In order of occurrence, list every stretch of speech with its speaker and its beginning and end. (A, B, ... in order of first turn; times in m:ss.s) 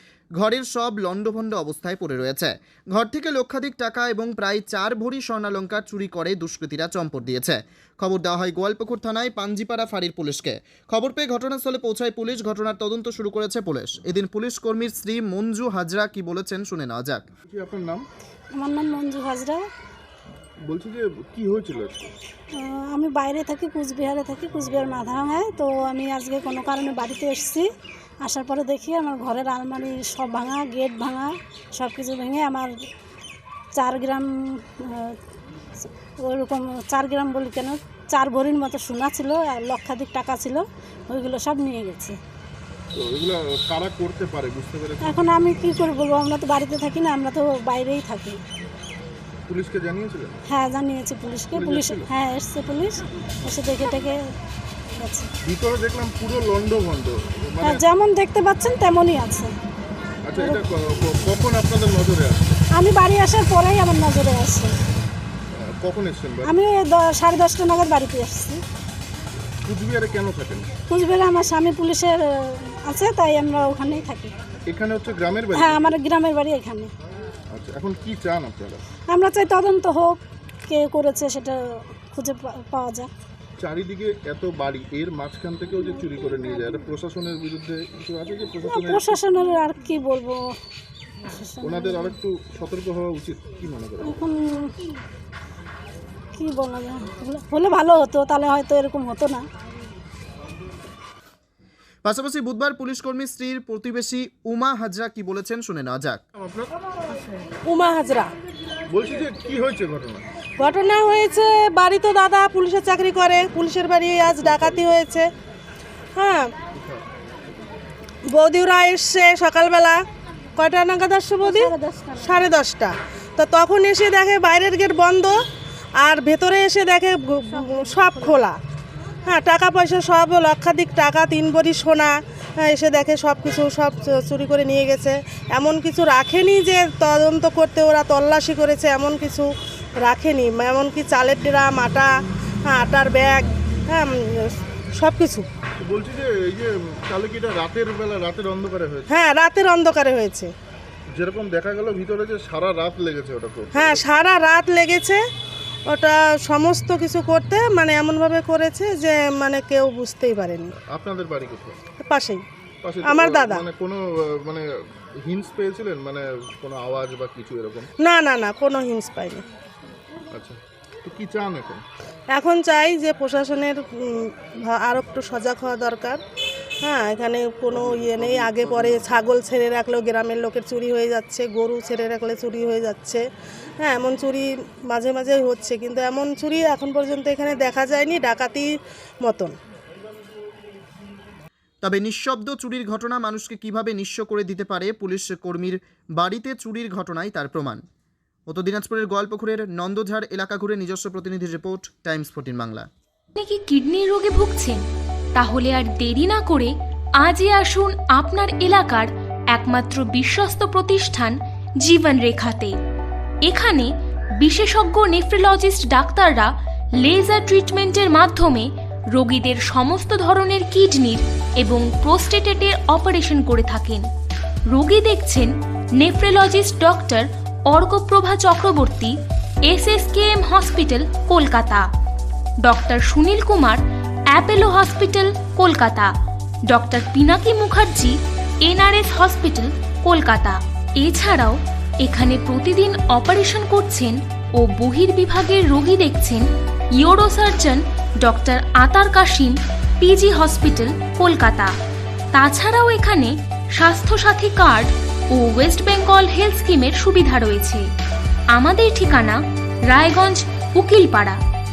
0:00.4-0:17.2 A
0:17.5-0:18.0 B
0:18.5-0:19.6 C
0:20.7-0:22.1 B
0:22.6-0:27.7 C
0:28.2-0:32.9 C
0:33.8-0:35.2 C
0:35.8-0:42.2 C
0:42.9-0:45.2 B
0:45.0-0:48.4 C
0:49.5-0:50.4 B
0:50.5-0:54.3 C
0:51.5-0:52.1 B
0:55.0-0:55.3 C
0:55.4-0:57.8 B
0:57.6-0:59.5 C
1:00.3-1:02.6 B
1:00.4-1:00.6 C
1:02.7-1:04.7 C
1:05.5-1:06.5 B
1:06.4-1:08.6 C
1:09.6-1:10.7 B
1:10.9-1:14.3 C
1:14.7-1:15.9 B
1:15.5-1:16.9 C
1:17.5-1:18.8 B
1:19.1-1:23.1 C
1:23.6-1:29.2 B
1:28.6-1:30.5 C
1:31.3-1:32.1 C
1:31.6-1:34.2 B
1:34.0-1:34.8 C
1:36.4-1:39.4 C
1:42.0-1:46.2 A
1:46.4-1:46.7 B
1:47.7-1:48.3 D
1:48.9-1:50.2 B
1:50.6-1:55.3 D
1:54.2-1:55.0 B
1:56.2-1:56.5 D
1:56.8-1:57.0 B
1:58.3-2:00.0 D
2:00.6-2:05.3 D
2:01.4-2:02.4 C
2:06.0-2:08.5 D
2:07.5-2:08.3 C
2:09.3-2:19.5 D
2:20.0-2:22.1 D
2:22.7-2:25.4 D
2:25.8-2:29.1 B
2:29.1-2:30.5 D
2:31.1-2:34.0 B
2:33.8-2:35.2 D
2:35.9-2:40.7 D
2:40.8-2:41.8 B
2:42.0-2:42.4 D
2:42.8-2:44.6 B
2:43.0-2:43.6 D
2:45.2-2:47.9 B
2:48.0-2:49.4 D
2:50.3-2:51.8 B
2:52.3-2:56.2 D
2:56.8-3:03.2 D
2:57.7-2:59.1 B
3:03.8-3:08.7 D
3:09.2-3:09.5 D
3:11.8-3:17.8 A
3:18.5-3:22.9 A
3:23.4-3:24.8 E
3:25.4-3:32.8 E
3:33.4-3:36.5 E
3:37.0-3:44.1 E
3:44.7-3:49.2 E
3:49.7-3:51.8 E
3:52.6-3:53.8 E
3:54.3-3:56.1 E
3:56.7-4:06.5 E
4:07.0-4:11.7 E
4:12.3-4:17.9 E
4:18.6-4:21.4 E